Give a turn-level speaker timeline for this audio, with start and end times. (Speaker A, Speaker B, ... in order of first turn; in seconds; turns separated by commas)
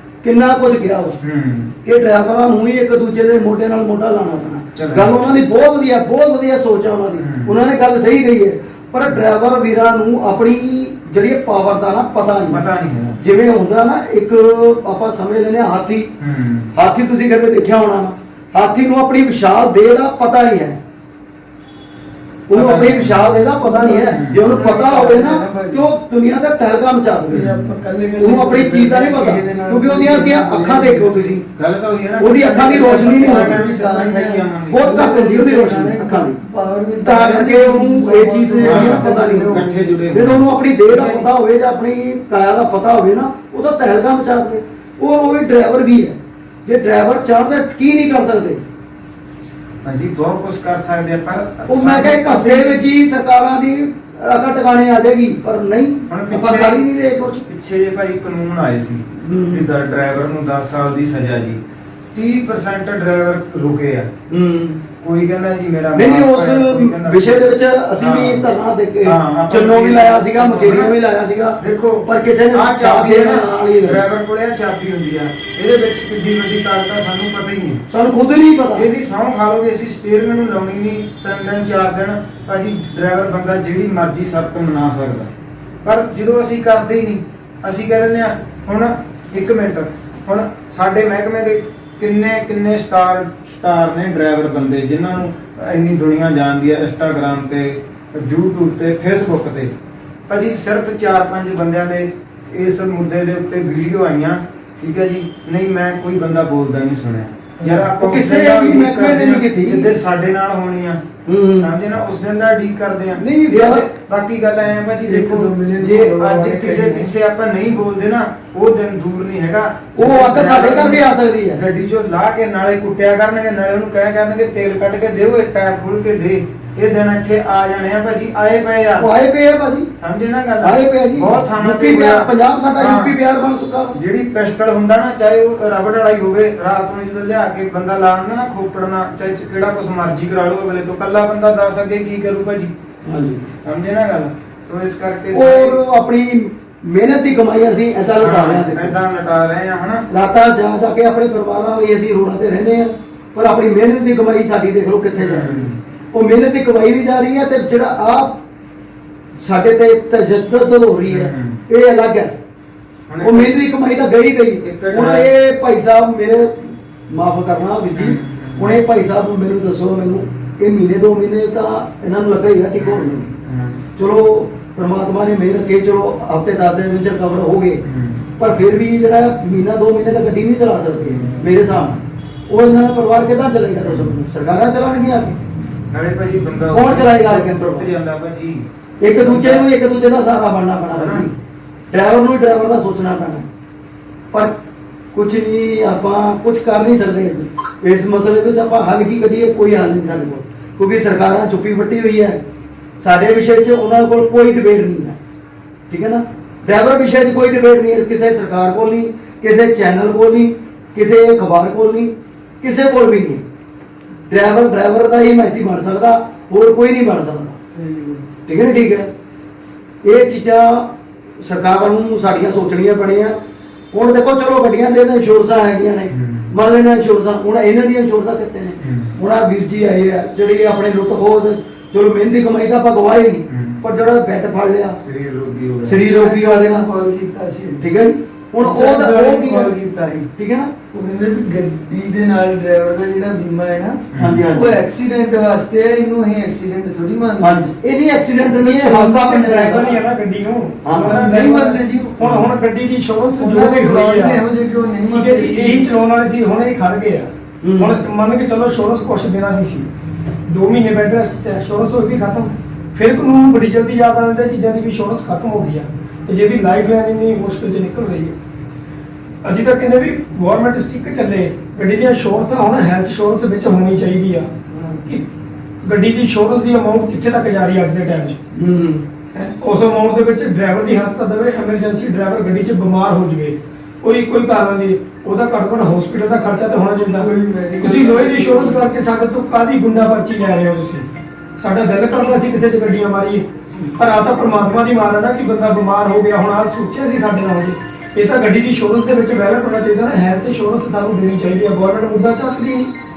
Speaker A: 0.2-1.2, Speaker B: 1.2-1.7, Speaker A: 1.8-12.6, Speaker B: 4.8-5.3, Speaker B: 7.2-7.6, Speaker B: 12.5-13.2, Speaker A: 13.2-16.1, Speaker B: 16.2-16.7, Speaker A: 16.7-20.8, Speaker A: 22.5-27.5, Speaker B: 22.5-24.5, Speaker C: 23.6-25.9, Speaker B: 27.3-27.7, Speaker C: 27.3-31.3, Speaker A: 28.2-31.4, Speaker B: 31.6-34.9, Speaker A: 32.2-33.6, Speaker C: 32.5-40.0, Speaker A: 34.7-36.4, Speaker A: 37.0-48.6, Speaker B: 38.6-41.3, Speaker B: 49.8-52.9, Speaker A: 51.7-57.4, Speaker B: 56.1-56.8, Speaker B: 57.3-61.6, Speaker A: 59.2-59.7, Speaker B: 62.1-64.1, Speaker A: 64.3-64.8, Speaker B: 65.0-68.5, Speaker A: 65.9-74.0, Speaker B: 69.0-70.9, Speaker B: 71.6-77.8, Speaker A: 77.9-78.9, Speaker B: 78.7-85.3, Speaker B: 85.8-99.7, Speaker B: 100.3-111.0, Speaker C: 107.6-107.9, Speaker A: 108.0-109.9, Speaker A: 111.2-111.7, Speaker B: 111.6-129.1, Speaker A: 113.2-113.9, Speaker C: 115.0-117.1, Speaker A: 120.0-121.6, Speaker A: 129.0-129.9, Speaker B: 130.0-133.2, Speaker A: 130.6-133.9, Speaker B: 133.9-142.7, Speaker A: 143.0-143.4, Speaker B: 143.6-145.8, Speaker A: 145.3-149.0, Speaker B: 148.2-150.0, Speaker A: 150.1-158.4, Speaker B: 155.1-155.8, Speaker A: 159.4-162.3, Speaker B: 161.1-161.6, Speaker B: 163.1-163.5, Speaker A: 163.2-173.3, Speaker B: 164.6-165.3, Speaker B: 167.9-168.8, Speaker B: 172.8-173.8, Speaker A: 174.0-177.8, Speaker B: 177.8-178.2, Speaker A: 178.4-185.4, Speaker B: 183.8-184.1, Speaker B: 185.9-189.7, Speaker A: 186.7-187.9, Speaker A: 189.0-191.3, Speaker B: 190.9-191.3, Speaker A: 191.9-193.4, Speaker A: 195.1-202.4, Speaker A: 203.0-205.2, Speaker A: 205.9-213.4, Speaker A: 214.3-217.6, Speaker C: 217.7-218.3, Speaker A: 218.4-219.1, Speaker A: 220.0-223.3, Speaker A: 223.9-235.0, Speaker B: 226.1-226.5, Speaker B: 228.8-229.2, Speaker B: 233.5-233.8, Speaker B: 235.0-236.0, Speaker A: 235.8-236.9, Speaker C: 236.0-237.8, Speaker A: 237.8-239.7, Speaker C: 238.6-240.3, Speaker A: 240.3-240.7, Speaker C: 240.9-247.6, Speaker B: 244.1-244.4, Speaker A: 244.2-244.8, Speaker A: 247.4-250.0, Speaker D: 248.7-254.4, Speaker A: 250.8-251.2, Speaker C: 250.9-252.4, Speaker C: 253.4-255.9, Speaker D: 255.1-259.9, Speaker A: 257.6-258.0, Speaker D: 260.5-268.3, Speaker D: 269.4-274.5, Speaker C: 274.7-275.0, Speaker D: 275.8-278.4, Speaker A: 278.5-279.1, Speaker D: 279.3-291.1, Speaker C: 287.1-288.8, Speaker D: 291.6-293.4, Speaker D: 294.0-302.9